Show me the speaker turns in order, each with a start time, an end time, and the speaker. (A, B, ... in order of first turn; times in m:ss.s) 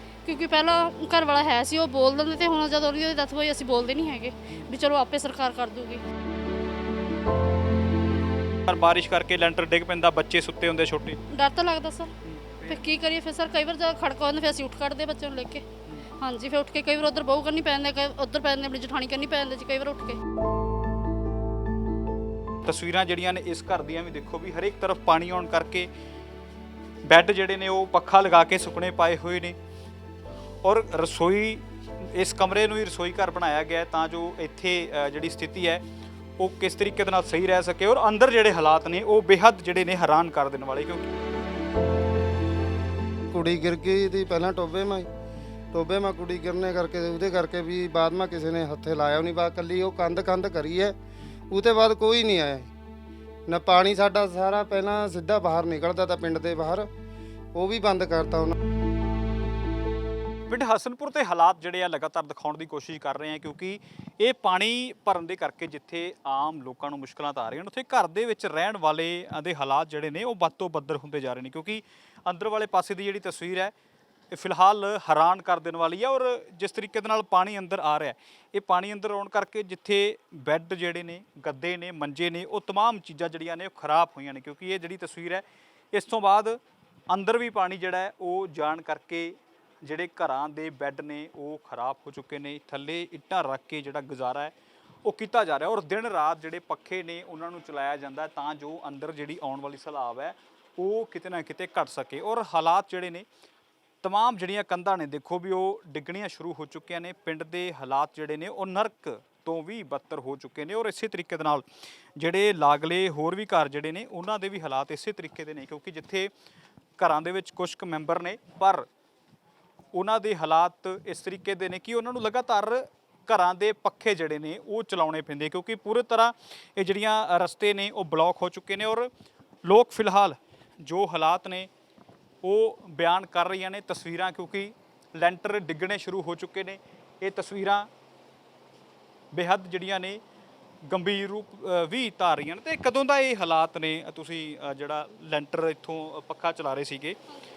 0:00.2-0:06.0 A
0:08.7-0:11.2 B
0:11.3-0:12.1 A
0:12.2-0:12.8 B
0:12.7-0:15.6 A
0:16.2-0:20.2 A
0:22.6-0:25.9 B
0:27.0-0:29.6 B
0:30.6-0:35.8 B
0:36.4-0:41.1 B
0:43.3-0:45.1 C
0:45.7-0:51.0 C
0:51.5-0:52.7 C
0:53.5-0:56.9 C
0:57.5-0:58.6 C
1:00.5-1:13.7 B
1:14.3-1:43.2 B
1:44.0-1:51.6 B
1:52.2-1:56.3 B
1:57.0-1:58.9 B
1:59.9-2:09.1 B
2:09.6-2:11.7 B
2:12.4-2:17.9 B
2:19.3-2:20.2 B
2:20.8-2:27.2 B